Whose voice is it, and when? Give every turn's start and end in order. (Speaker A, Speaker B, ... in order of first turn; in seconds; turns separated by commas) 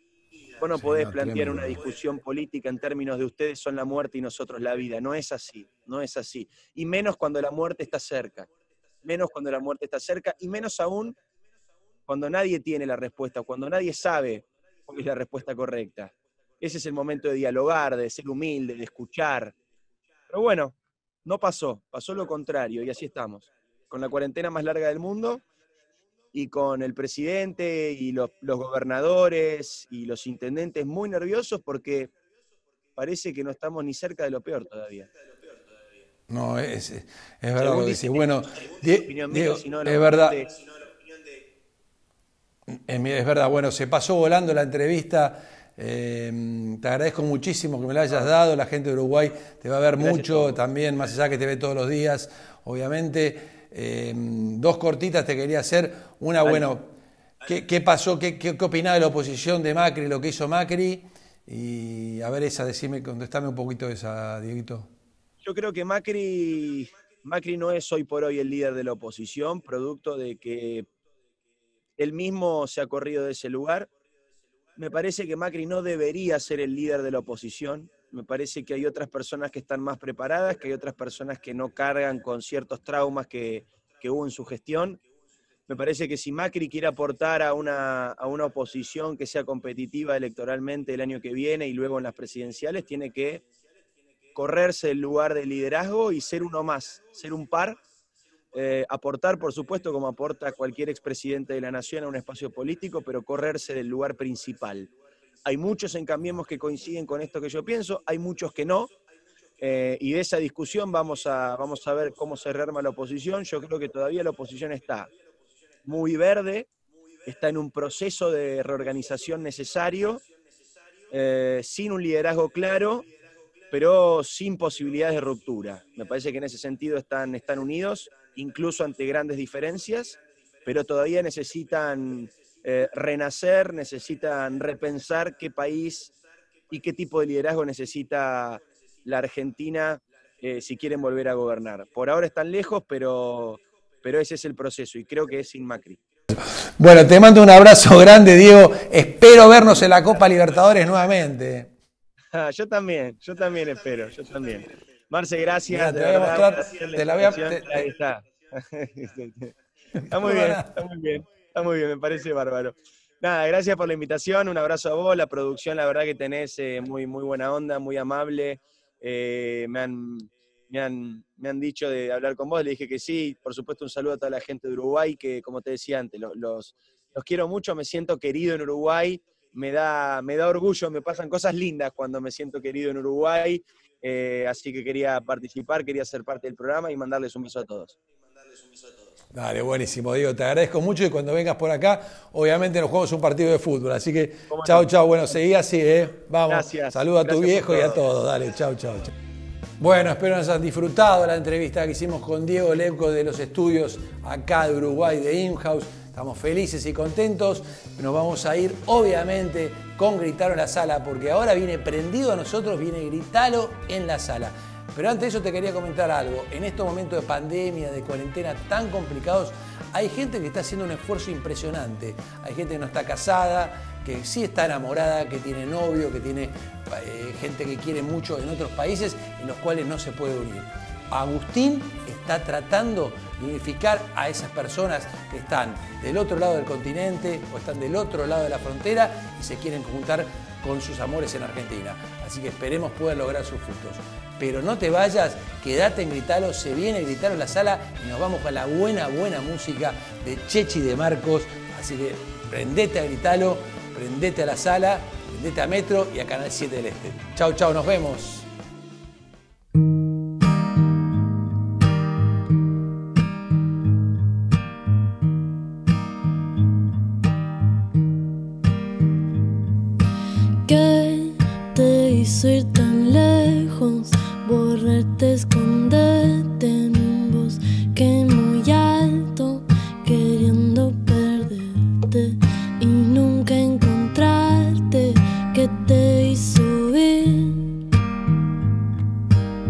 Speaker A: 0.6-8.5, Speaker B: 0.7-1.8, Speaker A: 9.0-11.2, Speaker A: 12.1-19.5, Speaker A: 20.3-25.4, Speaker A: 26.3-32.1, Speaker A: 33.0-35.1, Speaker B: 36.3-40.4, Speaker A: 37.6-40.5, Speaker B: 42.7-56.9, Speaker A: 50.0-50.5, Speaker B: 57.4-64.9, Speaker A: 65.4-70.9, Speaker A: 72.0-73.9, Speaker A: 74.8-85.0, Speaker A: 85.7-93.4, Speaker A: 94.3-97.8, Speaker A: 98.5-104.9, Speaker A: 105.5-108.9, Speaker A: 109.6-115.1, Speaker A: 115.8-116.7, Speaker A: 117.2-120.2, Speaker A: 121.1-123.1, Speaker A: 123.7-136.1, Speaker A: 136.7-146.0, Speaker B: 146.3-151.7, Speaker A: 152.3-159.5, Speaker B: 155.7-157.9, Speaker A: 160.1-188.0, Speaker B: 160.1-160.8, Speaker B: 189.3-199.1, Speaker A: 194.5-194.9, Speaker A: 196.5-198.0, Speaker B: 199.8-258.5, Speaker C: 270.6-287.8